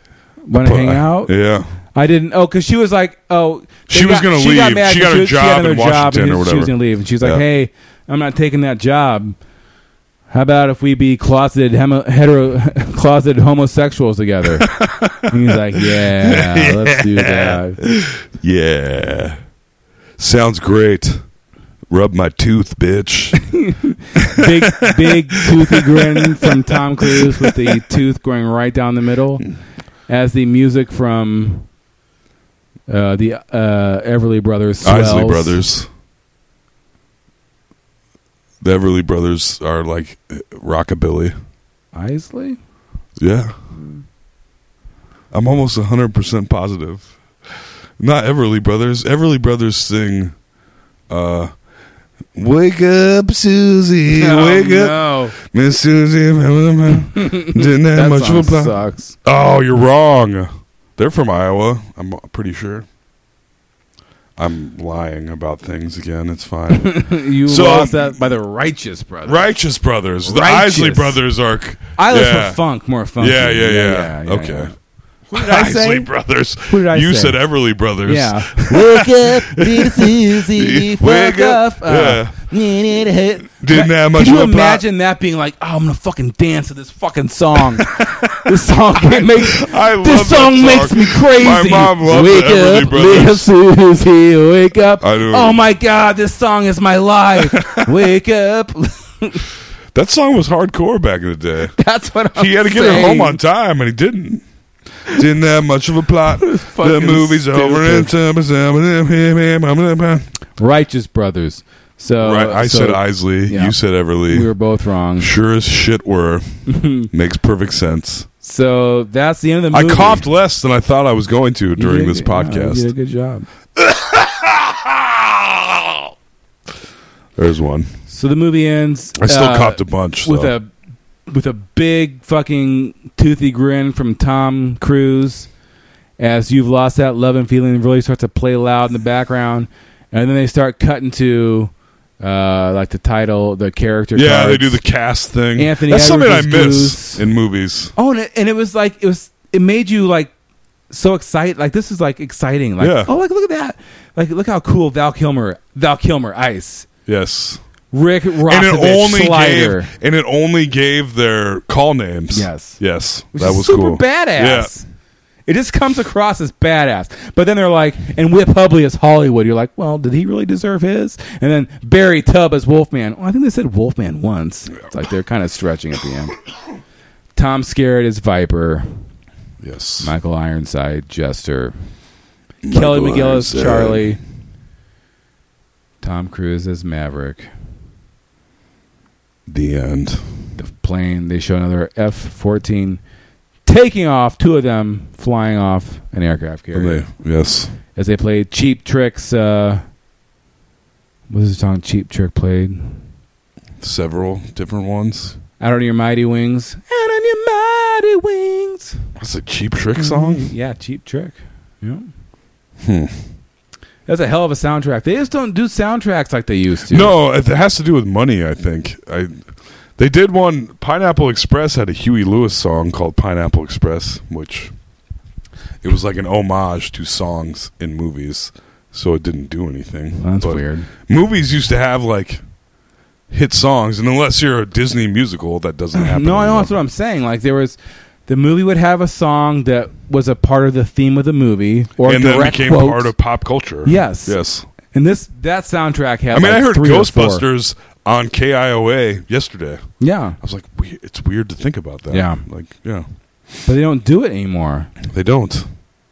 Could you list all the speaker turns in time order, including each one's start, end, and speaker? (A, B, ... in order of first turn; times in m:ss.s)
0:00.4-0:01.3 A
0:00.5-0:01.6 B
0:01.9-0:09.4 A
0:03.9-0:07.4 B
0:10.3-0:17.8 A
0:14.7-0:19.4 B
0:20.2-0:21.2 B
0:21.9-0:23.4 B
0:23.4-0:29.4 A
0:24.2-0:27.8 B
0:30.1-0:31.6 A
0:32.9-0:35.6 A
0:34.8-0:35.9 B
0:38.6-0:41.3 B
0:41.9-0:42.6 A
0:43.2-0:43.5 B
0:43.8-0:44.0 A
0:45.3-0:47.1 B
0:48.0-0:50.3 B
0:51.1-0:51.5 B
0:52.3-1:02.8 B
0:54.1-0:55.3 A
0:57.0-0:59.1 A
1:04.4-1:08.2 B
1:06.7-1:09.5 A
1:09.2-1:12.6 B
1:10.2-1:11.2 A
1:12.0-1:14.7 A
1:13.2-1:14.7 B
1:15.3-1:22.4 B
1:15.3-1:16.1 A
1:16.7-1:17.4 A
1:18.0-1:39.4 A
1:23.5-1:24.8 B
1:27.6-1:28.5 B
1:29.0-1:33.5 B
1:35.0-1:35.6 B
1:37.4-1:37.9 B
1:39.9-1:41.7 B
1:41.8-1:43.4 A
1:42.3-1:44.4 B
1:45.1-1:50.3 B
1:46.4-1:48.1 A
1:50.6-1:55.3 A
1:52.2-1:54.5 B
1:55.2-1:56.4 B
1:56.7-1:57.1 A
1:57.1-1:58.3 B
1:58.4-2:00.2 A
1:59.7-2:02.9 B
2:01.8-2:03.5 A
2:03.8-2:06.1 B
2:07.4-2:07.9 B
2:08.1-2:10.7 A
2:09.2-2:10.5 B
2:11.3-2:15.5 A
2:16.2-2:24.7 A
2:24.1-2:27.9 B
2:25.6-2:27.2 A
2:28.0-2:30.3 A
2:30.9-2:36.9 A
2:32.8-2:33.1 B
2:37.1-2:37.6 B
2:37.9-2:39.9 A
2:38.4-2:44.7 B
2:42.3-2:42.8 A
2:43.3-2:44.8 A
2:45.5-2:56.4 A
2:57.3-2:58.8 A
2:59.6-3:00.1 B
3:00.0-3:01.7 A
3:02.6-3:04.2 B
3:02.7-3:04.2 A
3:06.0-3:07.5 A
3:09.5-3:10.2 B
3:10.6-3:13.0 A
3:13.6-3:17.0 A
3:16.7-3:17.7 B
3:17.9-3:19.8 A
3:21.3-3:23.0 A
3:23.8-3:25.4 B
3:25.6-3:29.0 A
3:29.2-3:30.5 B
3:30.0-3:32.1 A
3:32.8-3:33.2 B
3:34.1-3:37.1 A
3:36.9-3:39.4 B
3:40.0-3:44.7 B
3:45.8-3:52.4 B
3:50.2-3:50.9 A
3:53.3-3:56.8 B
3:55.9-4:03.1 A
4:02.0-4:04.7 B
4:03.8-4:04.4 A
4:04.9-4:07.4 A
4:06.3-4:09.8 B
4:10.0-4:10.4 A
4:10.4-4:13.0 B
4:12.1-4:12.4 A
4:13.6-4:14.9 A
4:15.0-4:15.7 B